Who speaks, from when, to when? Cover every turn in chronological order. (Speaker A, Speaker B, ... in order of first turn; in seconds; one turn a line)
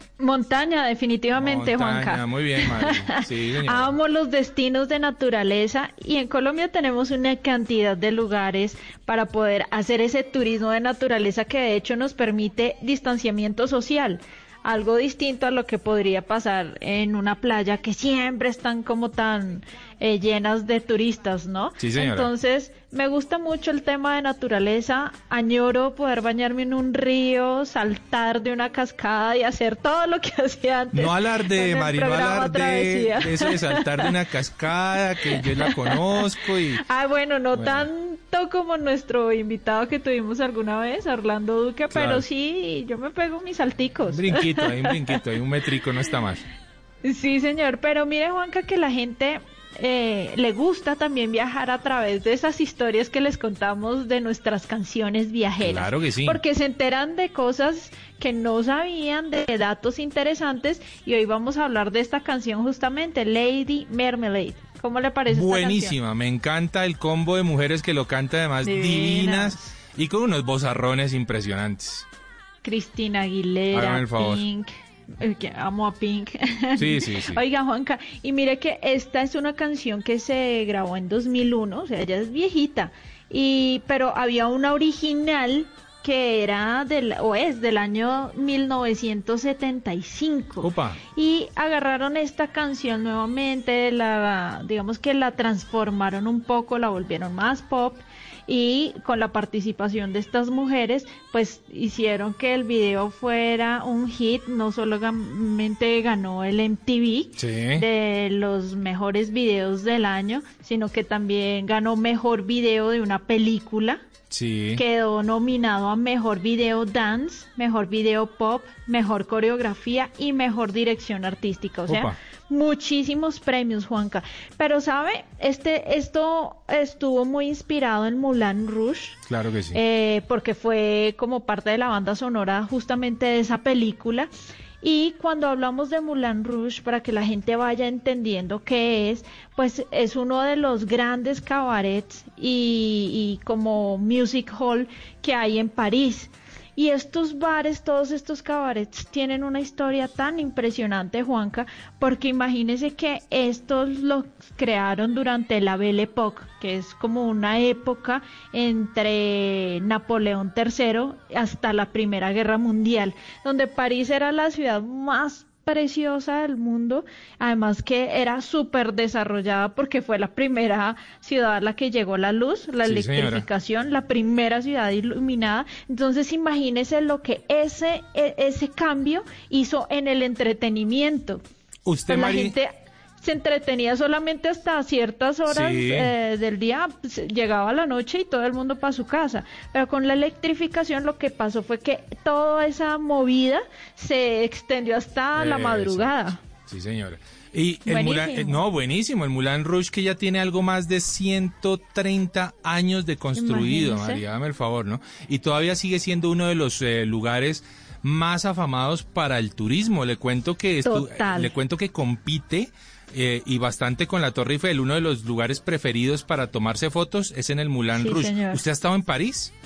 Speaker A: 0.2-34.1
Speaker B: 1.4-4.0
Speaker B: 21.8-22.3
Speaker B: 30.9-36.8
Speaker A: 35.3-36.2
Speaker A: 36.8-44.9
Speaker B: 37.5-37.9
Speaker B: 41.9-42.2
Speaker B: 44.1-46.4
Speaker A: 47.0-66.0
Speaker B: 55.6-56.4
Speaker B: 65.3-72.1
Speaker A: 68.6-69.7
Speaker A: 72.6-114.0
Speaker B: 73.7-74.4
Speaker B: 76.8-77.4
Speaker B: 90.6-91.0
Speaker B: 107.4-107.8
Speaker B: 114.3-114.8
Speaker A: 114.8-129.2
Speaker B: 121.9-122.2
Speaker B: 129.3-129.8
Speaker A: 129.7-134.3
Speaker A: 134.8-181.4
Speaker B: 172.8-173.4
Speaker B: 181.9-182.6
Speaker A: 182.1-196.4
Speaker B: 185.5-186.1
Speaker B: 195.3-219.5
Speaker A: 197.9-198.6
Speaker A: 203.4-204.2
Speaker A: 210.8-211.5
Speaker A: 217.9-218.6